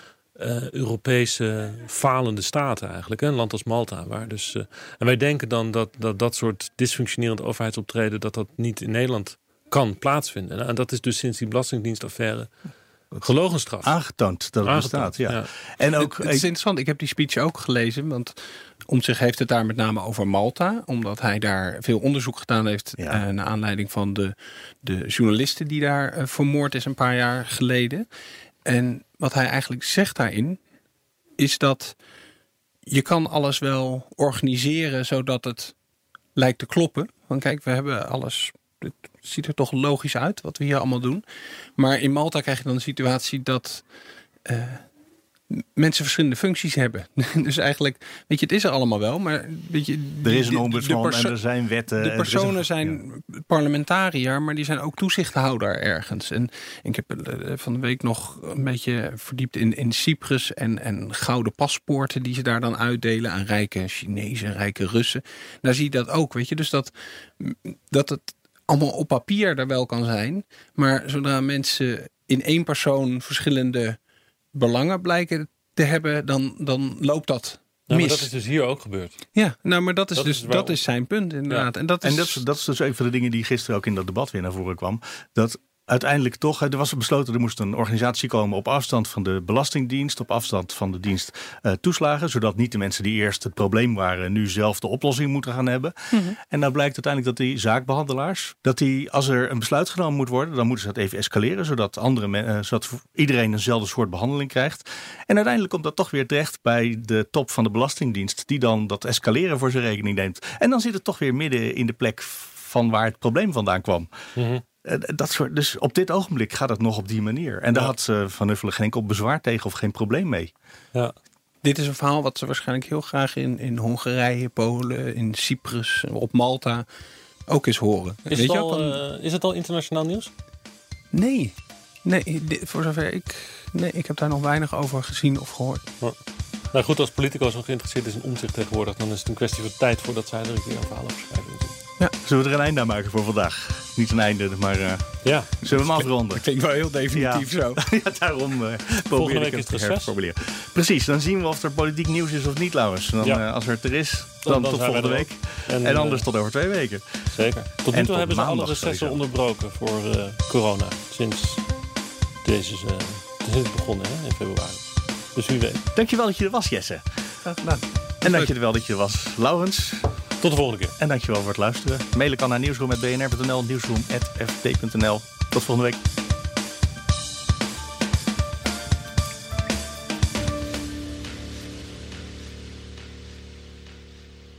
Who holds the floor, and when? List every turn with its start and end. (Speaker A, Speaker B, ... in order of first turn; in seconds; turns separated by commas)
Speaker A: 0.4-12.5, Speaker A: 13.2-13.9, Speaker B: 13.8-16.4, Speaker A: 14.6-15.5, Speaker C: 16.0-18.4, Speaker C: 18.9-28.1, Speaker C: 28.7-30.6, Speaker C: 31.4-32.0, Speaker C: 32.9-35.7, Speaker C: 36.4-41.2, Speaker C: 41.8-43.8, Speaker C: 44.5-44.8, Speaker C: 45.5-51.4, Speaker B: 50.2-53.0, Speaker C: 52.0-74.0, Speaker C: 74.5-78.3, Speaker A: 77.9-79.2, Speaker C: 79.3-82.4, Speaker A: 80.2-80.8, Speaker B: 82.0-114.1, Speaker C: 96.1-96.4, Speaker A: 114.4-114.6, Speaker B: 114.8-120.5, Speaker C: 121.6-126.9, Speaker C: 127.5-129.0, Speaker A: 128.3-130.3, Speaker C: 131.1-135.8, Speaker A: 136.7-141.8, Speaker B: 142.2-146.4, Speaker A: 145.2-145.6, Speaker C: 145.7-147.8, Speaker B: 147.1-157.2, Speaker A: 149.1-150.1, Speaker A: 154.4-156.2, Speaker A: 157.3-161.6, Speaker B: 157.9-159.2, Speaker A: 162.4-165.8, Speaker B: 165.9-167.1, Speaker C: 167.5-168.5, Speaker B: 168.2-170.1, Speaker A: 170.4-170.9, Speaker B: 171.0-176.0